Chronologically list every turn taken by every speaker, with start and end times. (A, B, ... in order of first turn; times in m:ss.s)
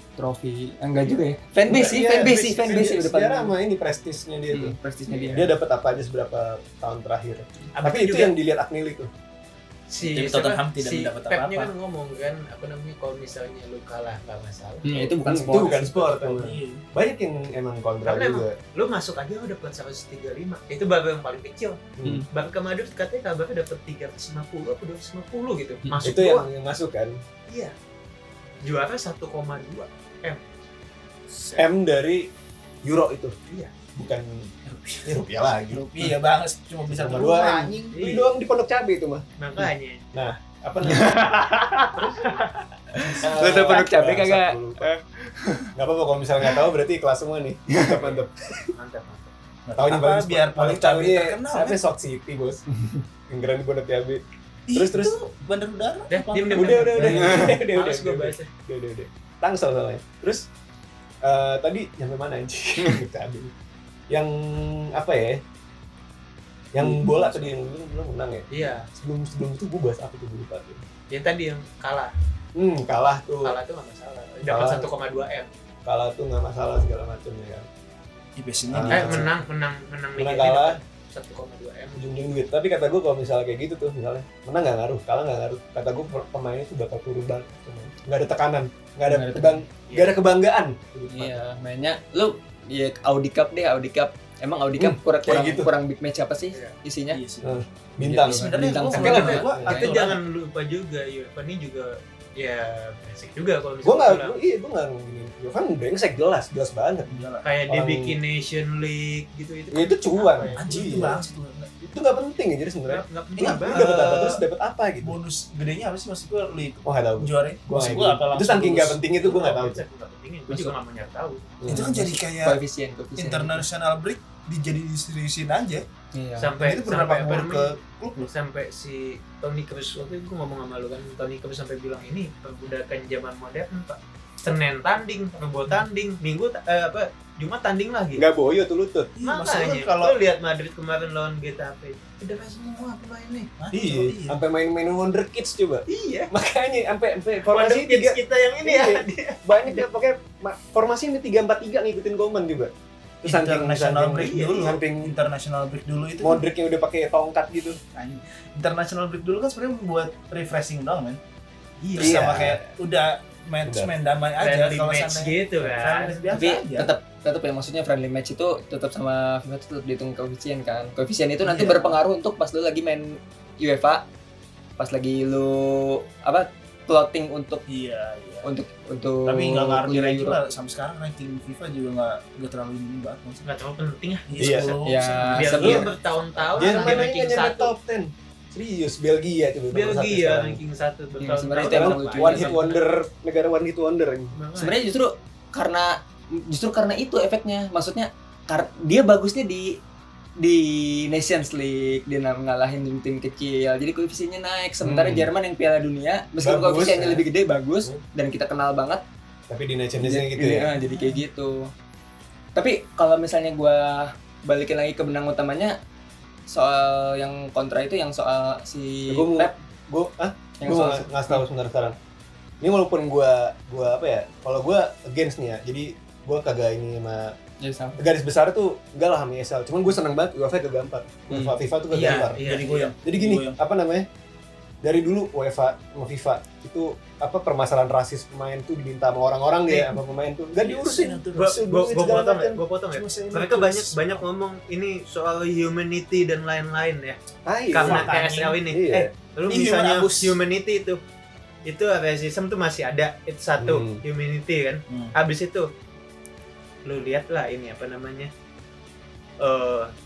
0:00.2-0:03.5 A
0:01.7-0:04.8 B
0:01.7-0:02.3 C
0:04.5-0:05.5 A
0:05.3-0:09.1 B
0:07.8-0:08.3 C
0:09.9-0:15.1 C
0:10.0-0:11.7 D
0:14.8-0:15.9 A
0:15.2-0:18.5 B
0:15.5-0:16.8 D
0:18.0-0:26.4 C
0:22.0-0:22.2 B
0:22.0-0:22.3 A
0:26.0-0:27.2 B
0:27.5-0:27.7 C
0:28.6-0:30.4 C
0:31.3-0:31.6 D
0:31.6-0:32.3 B
0:32.8-0:33.3 B
0:33.9-0:34.5 B
0:34.6-0:35.1 D
0:35.0-0:35.8 B
0:35.7-0:38.0 D
0:36.9-0:39.2 B
0:37.9-0:38.3 C
0:39.4-0:40.0 C
0:40.1-0:41.2 B
0:40.8-0:42.0 A
0:41.9-0:42.6 C
0:42.9-0:45.7 A
0:43.2-0:44.9 B
0:45.7-0:48.4 B
0:47.7-0:48.0 A
0:47.9-0:48.2 C
0:48.7-0:49.3 C
0:49.6-0:51.8 D
0:49.8-0:52.6 B
0:53.3-0:54.2 B
0:54.7-0:57.5 D
0:54.7-0:55.1 B
0:56.1-0:58.5 C
0:56.5-1:00.5 B
1:01.2-1:03.5 B
1:04.1-1:05.4 B
1:06.7-1:10.8 B
1:06.8-1:07.5 D
1:08.5-1:08.9 C
1:11.1-1:12.1 C
1:12.5-1:13.6 B
1:13.4-1:15.5 C
1:14.4-1:14.9 B
1:15.8-1:17.7 B
1:18.4-1:19.4 D
1:18.7-1:19.3 B
1:18.9-1:22.0 C
1:20.2-1:20.8 B
1:22.0-1:31.4 B
1:29.1-1:29.6 A
1:29.9-1:30.1 C
1:31.1-1:37.2 A
1:34.8-1:35.7 B
1:37.1-1:37.6 D
1:37.4-1:39.8 B
1:38.0-1:40.0 A
1:38.2-1:40.2 D
1:38.9-1:44.4 C
1:43.8-1:48.2 B
1:47.1-1:47.4 D
1:47.4-1:51.2 C
1:49.7-1:51.2 B
1:50.6-1:51.7 D
1:51.8-1:55.2 B
1:52.9-1:54.0 C
1:53.4-1:54.4 D
1:55.0-1:59.0 D
1:56.8-1:59.8 B
1:59.2-2:01.5 C
2:01.6-2:02.0 B
2:01.7-2:02.6 D
2:01.7-2:03.7 A
2:03.2-2:05.8 D
2:06.1-2:06.5 A
2:06.4-2:18.2 C
2:06.6-2:08.3 D
2:18.2-2:19.1 B
2:19.1-2:20.2 D
2:19.2-2:23.5 C
2:23.5-2:24.4 D
2:23.7-2:32.7 B
2:25.9-2:26.3 C
2:27.5-2:29.8 C
2:33.2-2:35.2 B
2:33.2-2:36.4 D
2:34.2-2:34.6 C
2:36.2-2:37.8 B
2:37.9-2:41.2 D
2:41.8-2:46.9 D
2:42.0-2:42.6 B
2:43.6-2:43.9 B
2:44.4-2:46.4 C
2:46.3-2:54.1 A
2:51.4-2:52.0 D
2:54.8-2:57.6 A
2:57.7-2:58.5 D
2:58.4-3:00.4 A
2:59.2-3:03.4 D
3:03.4-3:04.7 C
3:04.3-3:07.0 D
3:04.4-3:04.8 B
3:04.8-3:05.9 A
3:05.3-3:07.7 C
3:05.6-3:05.8 B
3:06.6-3:10.6 B
3:09.7-3:12.8 C
3:11.2-3:12.7 A
3:11.7-3:14.3 B
3:14.3-3:14.8 C
3:14.6-3:19.8 A
3:20.4-3:29.0 A
3:24.8-3:25.3 B
3:26.4-3:27.2 B
3:29.5-3:30.7 B
3:30.0-3:31.7 A
3:32.5-3:35.8 A
3:36.5-3:39.5 A
3:39.1-3:42.0 B
3:40.6-3:41.4 A
3:42.6-3:47.3 B
3:47.6-3:48.0 A
3:48.0-3:52.4 B
3:51.3-3:51.6 A
3:51.9-3:52.9 C
3:52.0-3:53.6 D
3:53.0-3:54.1 B
3:54.8-4:02.6 B
3:59.7-3:59.9 D
4:00.6-4:01.6 D
4:01.3-4:07.2 C
4:02.9-4:04.2 D
4:07.4-4:08.1 B
4:07.7-4:11.0 C
4:07.8-4:08.6 D
4:08.7-4:09.1 B
4:09.5-4:10.4 D
4:11.6-4:15.7 C
4:13.6-4:14.0 B
4:14.9-4:15.1 D
4:16.8-4:18.3 C
4:19.4-4:19.9 C